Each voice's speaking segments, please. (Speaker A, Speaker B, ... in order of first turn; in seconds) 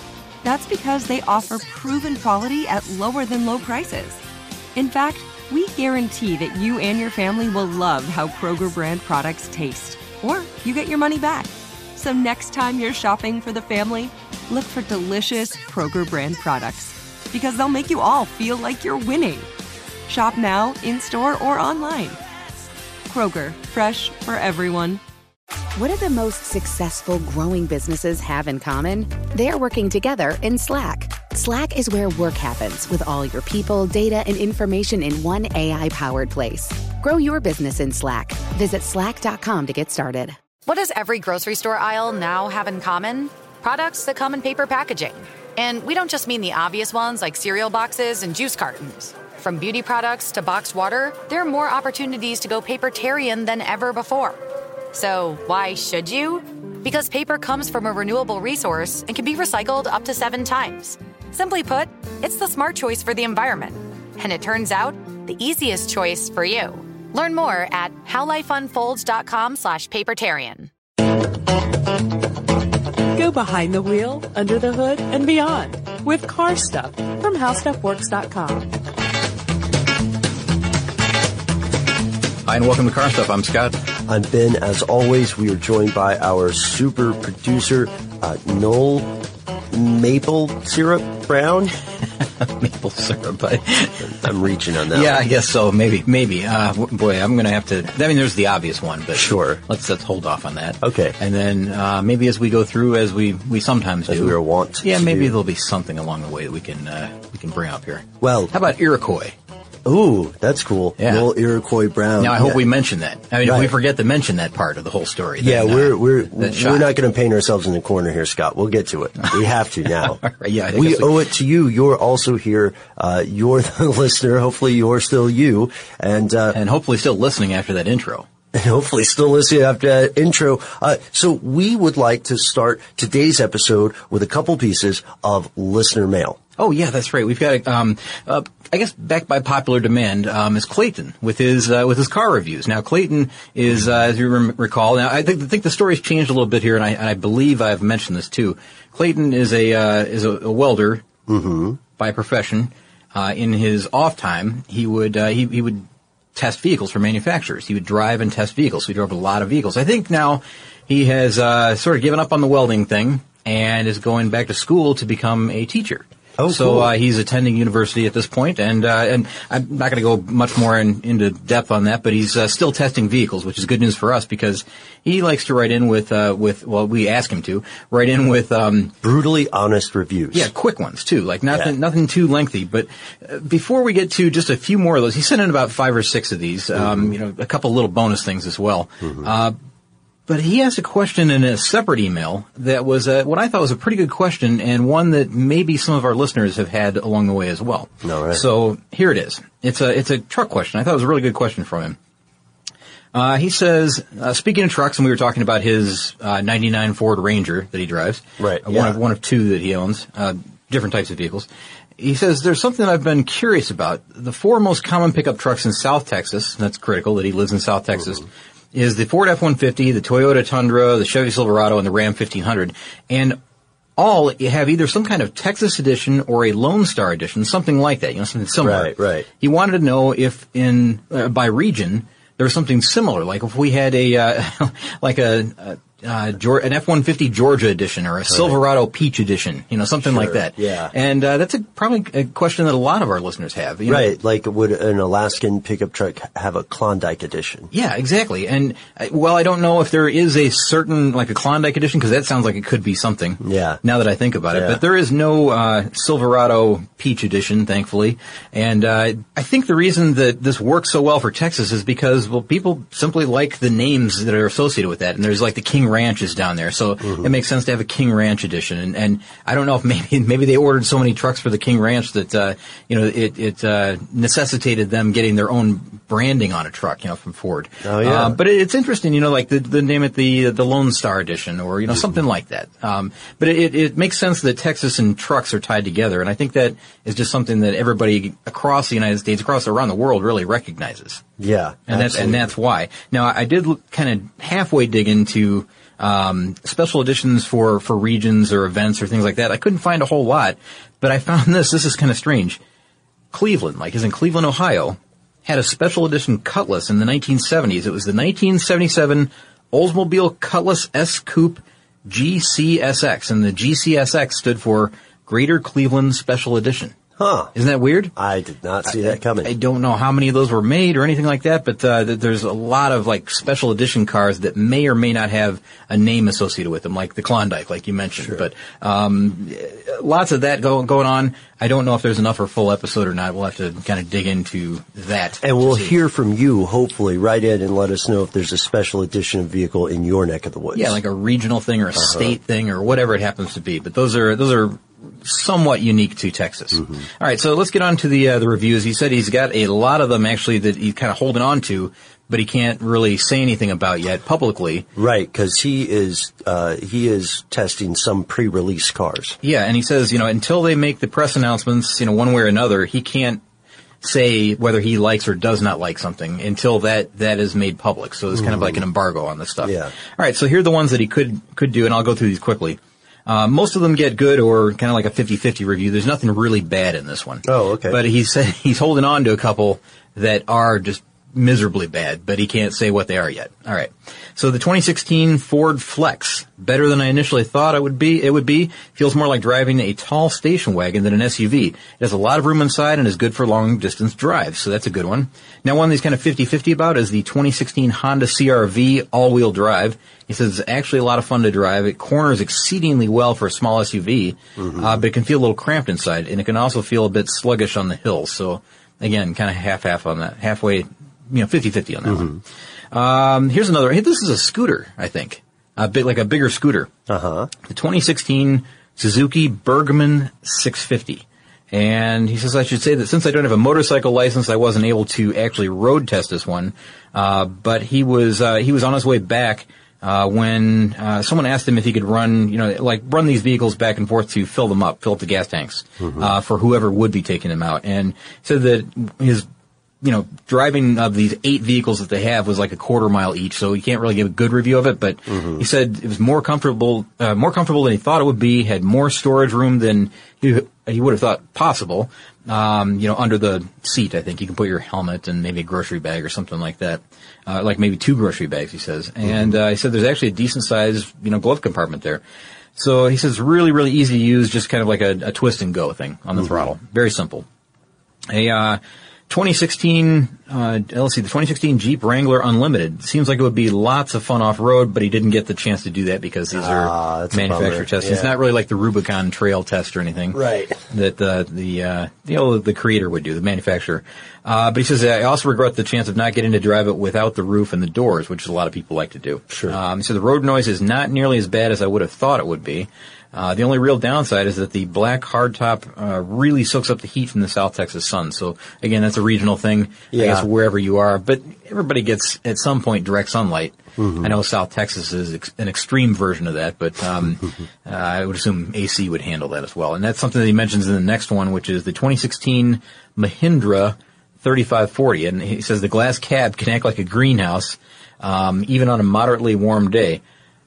Speaker A: 0.4-4.2, 4.7-19.5, 20.1-22.2, 23.1-25.0
Speaker B: 25.7-40.4
Speaker C: 40.6-54.4, 54.9-70.7
Speaker D: 73.1-78.7
Speaker E: 82.5-83.7, 92.4-94.2, 94.9-109.3, 111.0-111.3, 112.2-116.9, 120.0-121.3, 126.5-128.2, 136.6-151.0, 152.0-178.9, 180.3-189.5, 190.3-202.0, 203.1-211.5, 212.0-223.4, 224.0-244.1, 247.7-291.2, 291.9-302.6, 303.3-316.9, 317.5-318.1, 318.9-335.9, 340.7-354.9, 359.4-363.4, 364.0-412.4, 412.9-416.9, 417.7-439.4, 440.0-462.2, 462.8-467.4, 468.3-480.4, 480.9-520.2
Speaker F: 84.1-89.2, 89.7-91.7, 94.0-95.2, 99.1-99.6, 100.8-101.2, 104.1-105.3, 108.2-108.5, 109.8-112.6, 113.4-113.7, 115.4-126.6, 128.5-136.4, 151.3-151.8, 166.4-166.9, 179.0-180.5, 186.8-187.1, 189.0-189.3, 198.0-198.4, 208.4-209.0, 228.6-229.3, 238.3-238.6, 240.0-240.9, 243.9-247.7, 253.4-253.8, 254.5-254.8, 267.0-267.3, 277.8-278.4, 281.9-282.2, 291.4-292.5, 317.2-317.5, 318.1-319.5, 335.4-341.0, 341.9-342.3, 346.8-347.0, 354.9-359.4, 368.3-368.8, 369.6-369.9, 377.4-378.0, 404.6-405.1, 412.1-412.4, 417.1-417.5, 436.0-436.3, 445.3-445.6, 459.2-459.5, 466.4-466.7, 476.5-478.3, 480.3-480.8, 489.5-489.8, 500.1-500.4, 504.0-504.4